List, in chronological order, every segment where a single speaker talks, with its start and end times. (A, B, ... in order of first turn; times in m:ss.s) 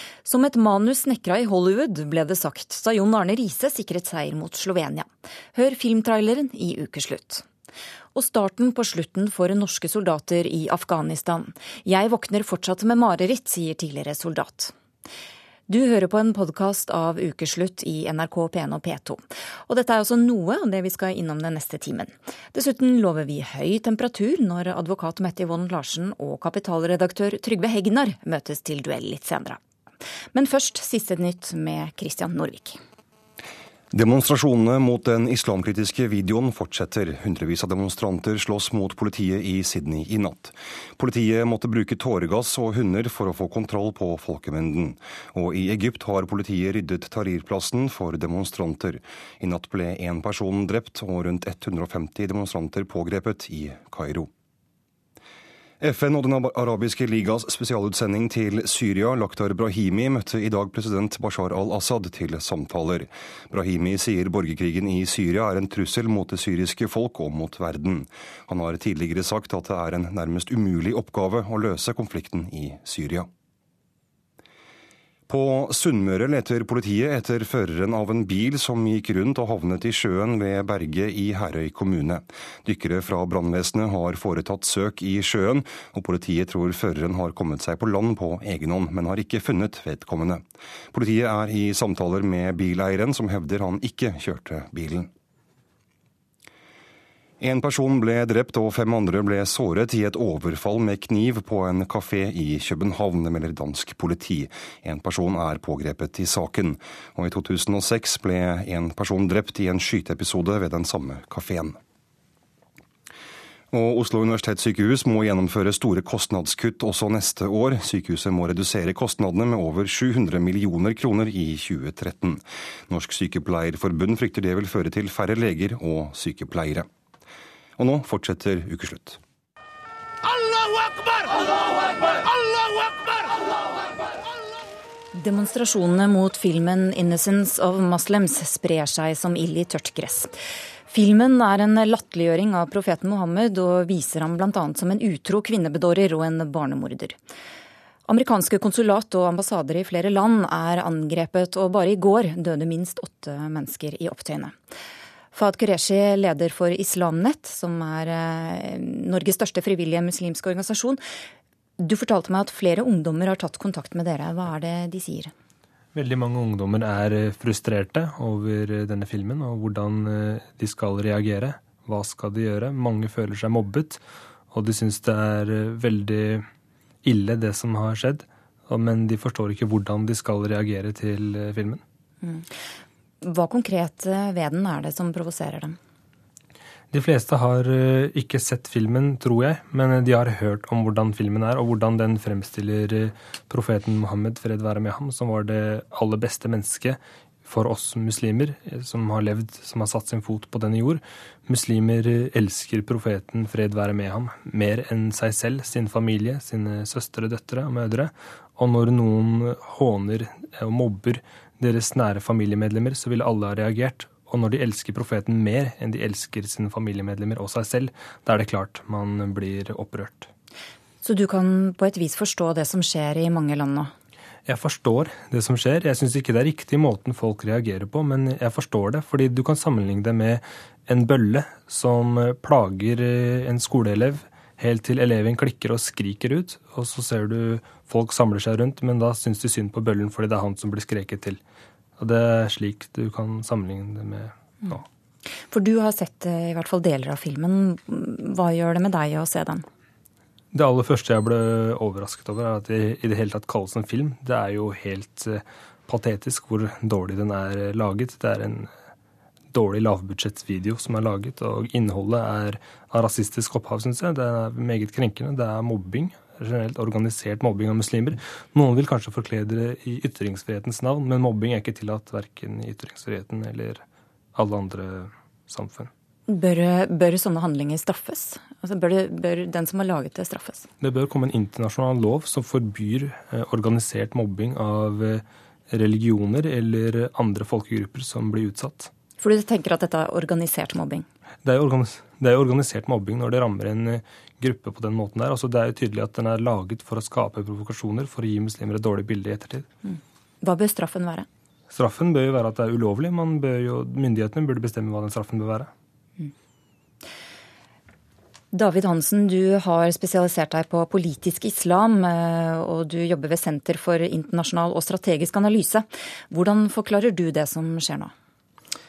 0:00.2-0:07.4 A
0:08.1-0:14.7 A
0:15.7-0:29.6 A
0:30.3-0:32.8 A
0:33.9-0:54.3 B
0:55.8-1:13.3 B
1:15.3-1:35.1 B
1:37.4-1:51.8 B
1:53.7-2:06.9 B
2:07.8-2:09.2 B
2:15.1-2:20.3 A
2:20.9-2:27.2 A
2:28.1-2:34.5 A
2:35.3-2:41.0 A
2:41.8-2:45.3 A
2:45.9-2:56.4 C
2:57.0-3:01.8 C
3:02.2-3:02.5 A
3:03.2-3:05.8 A
3:06.9-3:40.3 C
3:41.0-3:43.9 A
3:44.4-4:01.4 C
4:02.0-4:04.8 C
4:05.5-4:09.6 A
4:10.5-4:18.7 C
4:19.5-4:33.8 C
4:34.3-4:35.9 C
4:36.3-4:40.7 A
4:40.8-4:48.9 C
4:49.2-4:51.0 A
4:51.4-4:59.7 C
4:59.8-5:01.2 A
5:01.7-5:05.7 C
5:08.5-5:18.1 A